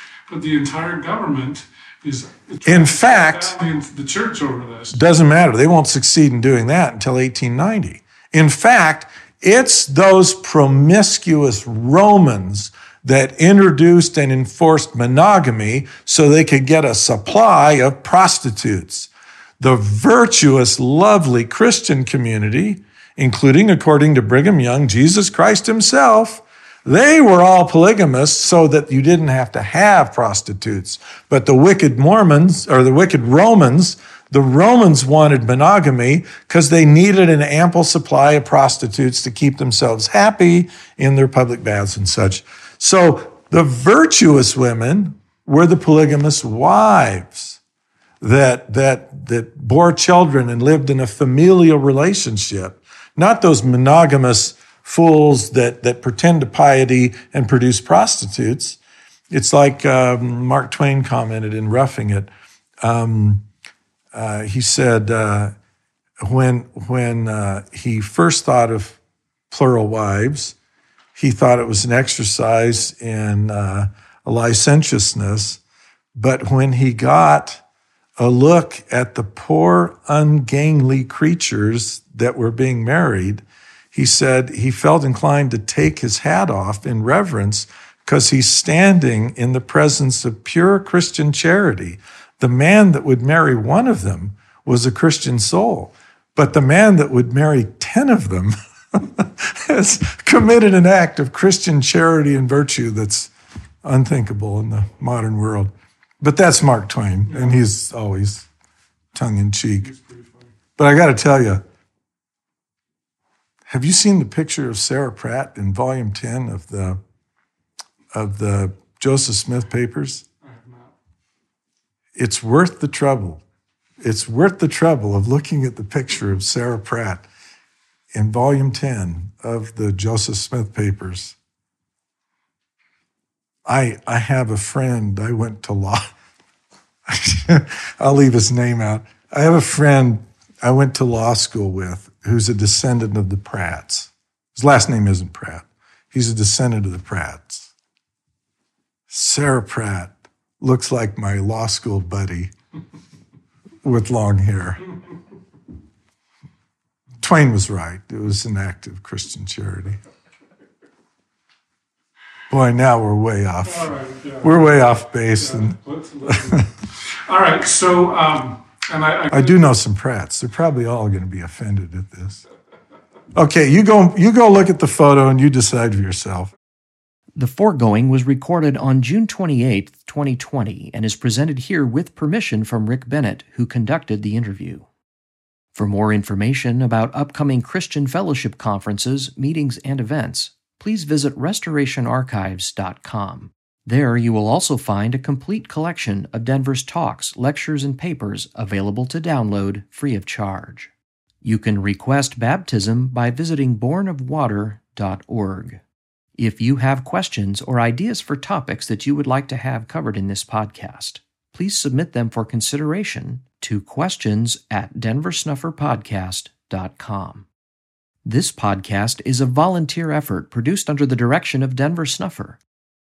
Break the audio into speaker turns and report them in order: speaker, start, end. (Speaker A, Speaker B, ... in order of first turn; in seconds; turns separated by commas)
Speaker A: 0.3-5.0, Speaker B: 2.6-3.5, Speaker B: 4.9-47.6, Speaker B: 48.2-58.8, Speaker B: 59.3-62.3, Speaker B: 62.8-63.4, Speaker B: 64.1-65.5, Speaker B: 66.2-69.0, Speaker B: 69.5-70.5, Speaker B: 71.1-75.6, Speaker B: 76.1-77.6, Speaker B: 78.2-103.3, Speaker B: 103.8-108.5, Speaker A: 107.3-107.5, Speaker B: 109.1-109.9, Speaker A: 109.8-110.5, Speaker B: 110.8-111.6, Speaker B: 113.7-117.0, Speaker B: 118.1-120.2, Speaker A: 120.4-120.9, Speaker B: 122.2-123.4, Speaker B: 124.0-127.2, Speaker B: 128.1-131.3, Speaker B: 133.7-136.1, Speaker B: 137.1-147.7, Speaker B: 149.1-152.5, Speaker B: 153.8-154.8, Speaker B: 157.2-160.0, Speaker B: 162.5-166.7, Speaker A: 163.6-169.7, Speaker B: 169.3-172.4, Speaker B: 173.3-176.5, Speaker C: 177.3-184.8, Speaker C: 185.7-200.9, Speaker C: 201.4-205.8, Speaker C: 206.4-217.4, Speaker C: 218.2-222.6